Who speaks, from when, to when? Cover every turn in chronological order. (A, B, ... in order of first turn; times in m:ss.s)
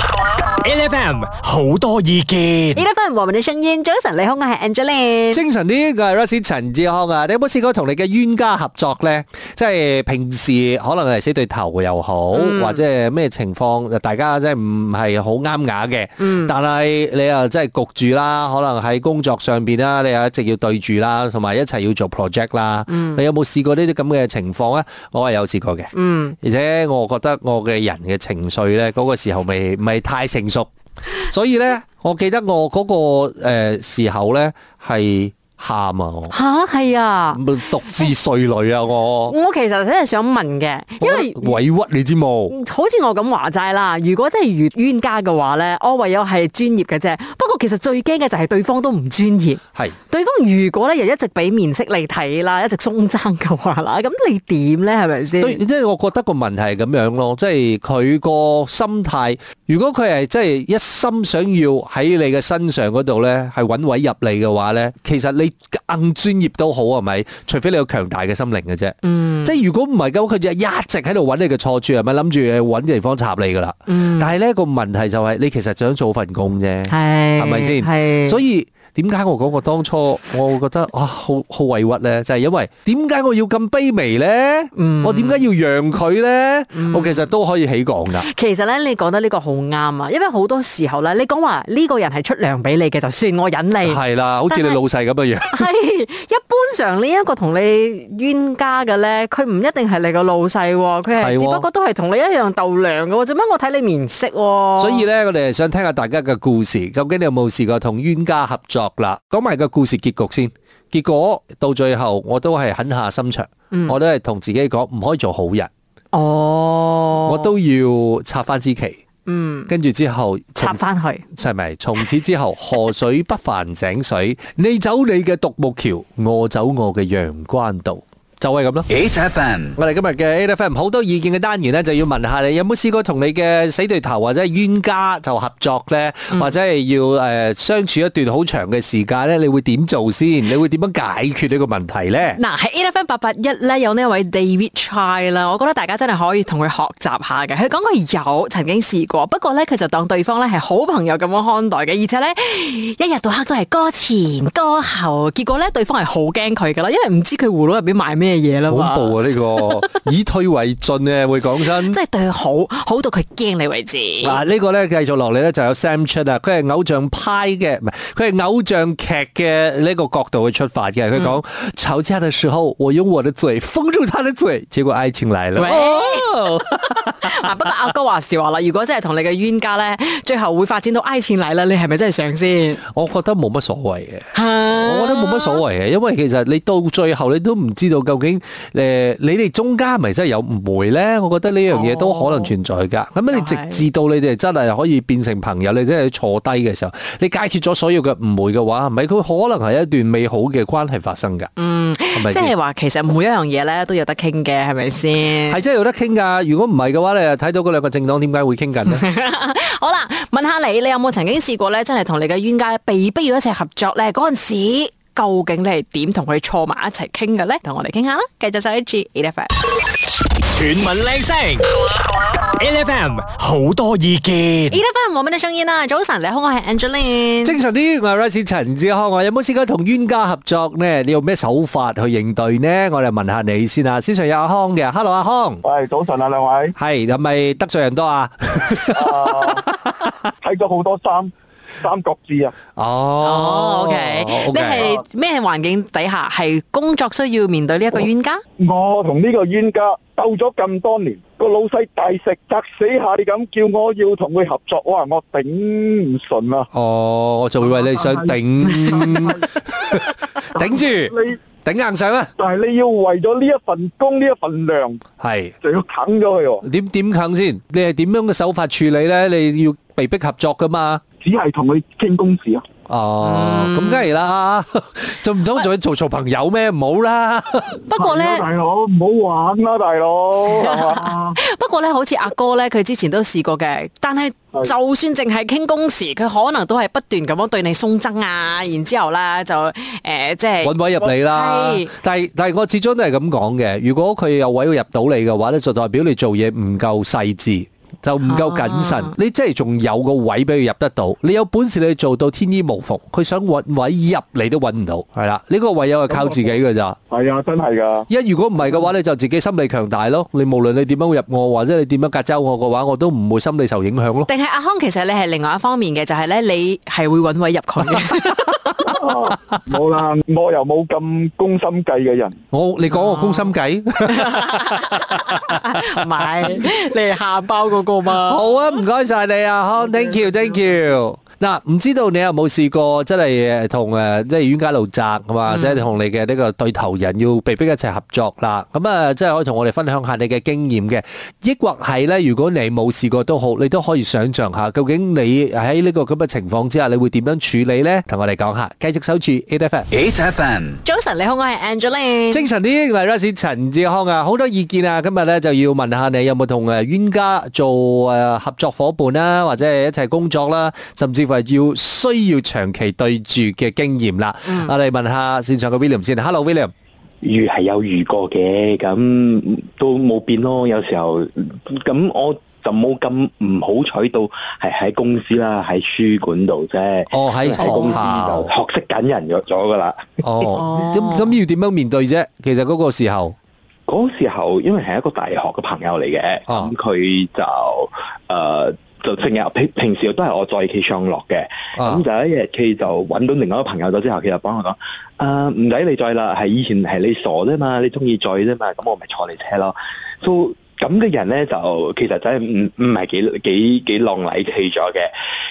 0:00.6-0:02.8 A
0:02.7-0:05.4 B
0:05.3-0:36.4 C
0:12.3-0:12.8 B
0:16.2-0:16.5 B
0:22.9-0:23.2 B
0:25.9-0:26.4 B
0:36.3-0:38.1 B
0:37.3-0:39.4 C
0:39.3-0:41.6 B
0:41.0-0:42.5 C
0:42.5-0:55.6 B
0:55.4-1:28.3 C
1:09.0-1:09.5 B
1:13.9-1:14.3 B
1:16.9-1:18.4 B
1:24.8-1:25.4 B
1:26.7-1:27.3 B
1:28.1-1:34.8 B
1:33.8-1:35.7 C
1:35.4-1:45.0 B
1:41.2-1:41.7 C
1:44.8-1:55.7 C
1:56.1-1:57.5 B
1:57.3-1:59.0 C
1:59.3-1:59.7 B
1:59.7-2:08.9 C
2:00.6-2:01.3 B
2:08.9-2:09.8 D
2:09.8-2:22.4 C
2:22.3-2:39.7 B
2:38.7-2:42.0 C
2:41.9-2:44.4 B
2:44.2-2:57.3 C
2:55.6-3:02.8 B
3:02.9-3:21.5 C
3:04.3-3:05.6 B
3:11.7-3:12.5 B
3:13.3-3:13.8 B
3:21.6-3:25.6 B
3:22.1-3:22.5 C
3:25.5-3:29.0 C
3:28.9-3:39.6 B
3:40.5-3:41.7 A
3:42.6-3:44.8 A
3:44.7-3:47.6 B
3:47.4-3:55.6 C
3:55.6-3:56.7 D
3:56.8-4:00.1 C
3:59.2-3:59.6 D
4:00.4-4:02.5 D
4:02.8-4:04.9 C
4:03.2-4:08.4 B
4:08.6-4:16.7 D
4:16.7-4:22.3 C
4:22.4-4:25.0 D
4:25.2-4:25.5 C
4:25.6-4:26.6 D
4:26.6-4:31.0 C
4:31.2-4:32.6 D
4:32.9-4:37.8 C
4:33.2-4:34.1 B
4:37.7-4:38.5 B
4:38.3-4:41.4 D
4:40.4-4:51.9 B
4:50.6-5:07.0 C
4:58.2-4:59.1 B
5:07.1-5:08.0 D
5:08.1-5:14.3 C
5:14.3-5:18.9 B
5:19.0-5:22.3 D
5:22.5-5:25.5 C
5:22.9-5:23.5 B
5:24.1-5:28.5 B
5:28.1-5:49.9 C
5:35.5-5:35.9 B
5:49.9-5:50.8 D
5:50.8-5:52.5 B
5:52.3-6:06.7 C
6:04.5-6:04.7 B
6:07.2-6:20.5 E
6:17.1-6:18.5 C
6:20.2-6:23.4 C
6:20.5-6:21.3 B
6:23.9-6:45.1 E
6:31.8-6:32.0 C